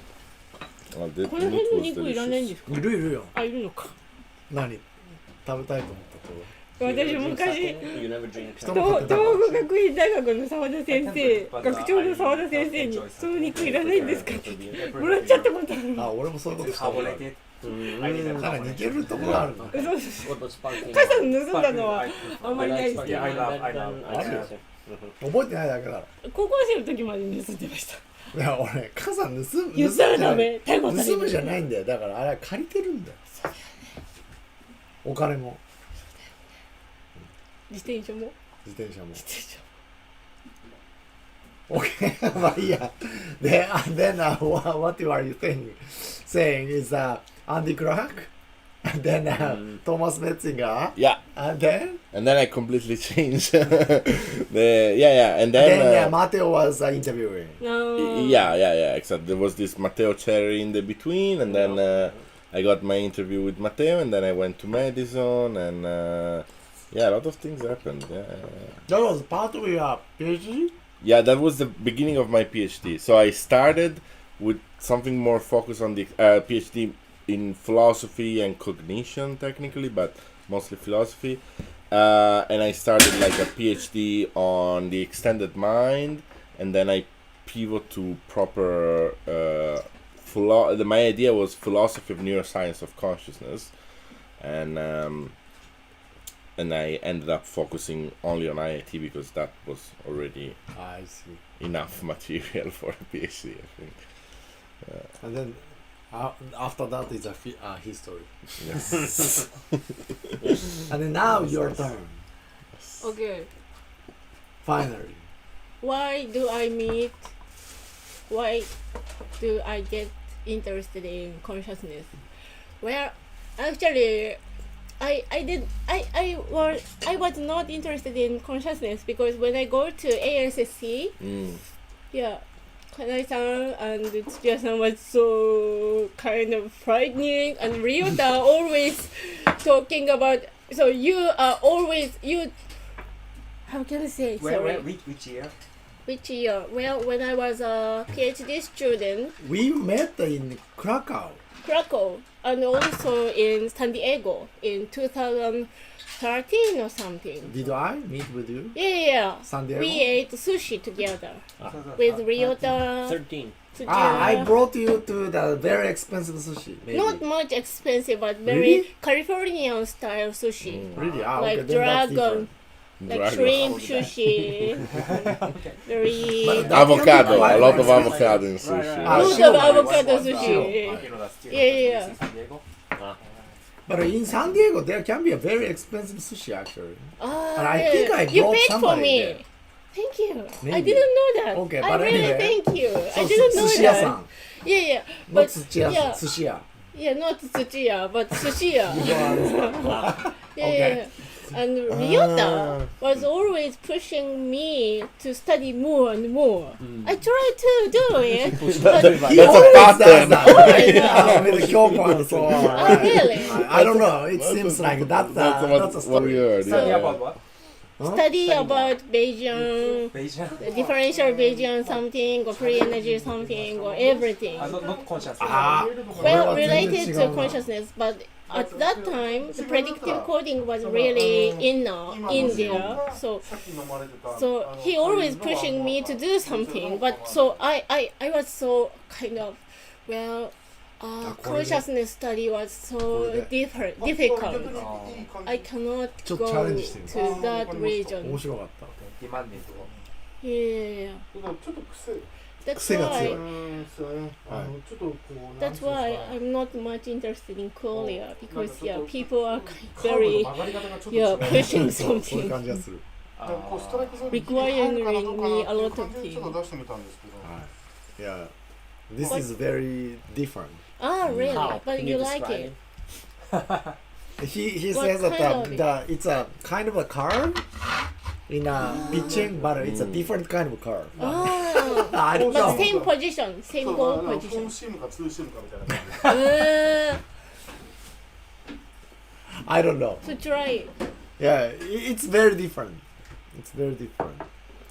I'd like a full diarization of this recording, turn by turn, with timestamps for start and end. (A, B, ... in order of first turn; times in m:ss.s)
0:00.9-0:02.6 A
0:01.2-0:03.9 B
0:02.7-0:03.3 C
0:04.5-0:04.8 C
0:05.4-0:06.5 C
0:06.8-0:16.2 B
0:06.8-0:09.3 D
0:08.6-0:09.7 C
0:10.9-0:15.5 E
0:13.7-0:14.8 D
0:16.0-0:17.3 C
0:16.5-0:19.5 E
0:17.6-0:18.4 D
0:17.9-0:19.8 C
0:19.3-0:21.4 D
0:19.7-0:23.4 B
0:21.4-0:24.6 E
0:22.5-0:25.1 D
0:24.1-0:24.4 C
0:25.2-0:26.1 C
0:26.2-0:28.0 B
0:28.3-0:33.2 C
0:29.7-0:31.6 B
0:35.0-0:35.6 C
0:37.7-0:38.3 B
0:38.6-0:39.2 C
0:39.2-0:39.6 B
0:41.7-0:48.3 C
0:48.8-0:52.0 C
0:52.1-0:56.1 A
0:55.5-0:57.6 C
0:57.6-0:58.5 B
0:58.0-1:08.8 A
1:08.9-1:10.7 C
1:11.0-1:33.7 A
1:34.4-1:35.3 A
1:36.6-1:40.6 A
1:40.7-1:41.4 C
1:41.6-1:44.0 A
1:45.2-1:45.6 C
1:46.1-1:48.3 C
1:48.6-1:49.4 A
1:50.5-1:52.2 C
1:53.0-1:53.5 B
1:54.6-1:55.2 C
1:55.8-1:57.3 B
1:58.3-1:58.7 B
1:59.4-2:02.2 B
2:02.8-2:04.4 B
2:05.0-2:11.2 B
2:11.2-2:11.6 A
2:12.1-2:22.5 B
2:23.7-2:24.9 B
2:24.4-2:25.5 E
2:26.0-2:29.4 B
2:29.4-2:31.4 C
2:31.6-2:37.5 B
2:37.5-2:38.8 C
2:38.7-2:41.4 B
2:39.4-2:40.0 C
2:41.6-2:42.5 E
2:42.0-2:43.2 B
2:42.4-2:43.6 D
2:43.7-2:44.6 B
2:43.9-2:47.2 C
2:46.9-2:52.5 B
2:48.4-2:48.9 C
2:50.6-2:51.0 A
2:50.9-2:52.5 C
2:51.0-2:51.3 E
2:53.0-2:53.8 A
2:53.1-2:54.9 B
2:53.6-2:54.2 D
2:54.9-2:55.8 E
2:55.8-2:56.8 B
2:56.4-2:58.5 C
2:56.4-3:02.6 E
2:56.6-2:59.4 A
2:57.2-2:58.4 D
2:59.0-3:01.0 C
2:59.1-3:02.2 B
3:03.2-3:03.5 E
3:03.8-3:09.4 C
3:07.2-3:16.2 B
3:10.6-3:14.3 C
3:15.3-3:16.6 C
3:16.9-3:19.9 B
3:18.9-3:21.0 C
3:20.5-3:31.5 B
3:21.9-3:22.9 A
3:26.8-3:27.1 D
3:28.5-3:29.4 D
3:28.7-3:32.0 A
3:29.0-3:36.5 C
3:31.4-3:33.0 D
3:32.6-3:33.6 B
3:33.2-3:37.2 A
3:36.6-3:37.4 E
3:36.6-3:37.0 B
3:38.0-3:38.2 C
3:38.0-3:44.8 B
3:38.4-3:38.9 D
3:39.5-3:47.5 F
3:40.1-3:40.6 E
3:44.6-3:45.8 E
3:45.4-3:47.6 C
3:46.2-3:53.4 B
3:48.5-3:57.6 F
3:52.3-3:53.0 C
3:54.2-4:04.8 B
4:01.2-4:01.8 C
4:03.1-4:03.5 C
4:04.0-4:05.7 F
4:04.6-4:05.3 E
4:05.4-4:08.4 B
4:06.2-4:07.4 C
4:07.1-4:08.2 F
4:08.2-4:08.9 C
4:08.9-4:09.9 E
4:09.5-4:10.0 F
4:10.4-4:11.2 B
4:11.3-4:12.2 F
4:12.6-4:13.4 B
4:12.7-4:13.4 C
4:13.0-4:16.4 F
4:15.6-4:22.7 B
4:17.9-4:22.1 F
4:21.7-4:23.0 C
4:23.4-4:24.4 E
4:23.4-4:27.5 F
4:24.3-4:26.6 B
4:27.4-4:28.5 C
4:29.1-4:30.8 C
4:31.0-4:32.7 B
4:31.3-4:31.6 A
4:31.5-4:32.8 D
4:34.4-4:37.6 C
4:34.9-4:35.8 B
4:38.5-4:41.2 C
4:39.0-4:39.4 F
4:39.7-4:40.3 A
4:41.2-4:43.1 F
4:41.2-4:44.8 B
4:41.9-4:42.9 C
4:43.7-4:46.4 F
4:46.2-4:47.2 B
4:49.5-4:50.2 C
4:50.2-4:50.9 B
4:51.4-4:53.0 C
4:53.5-4:54.4 C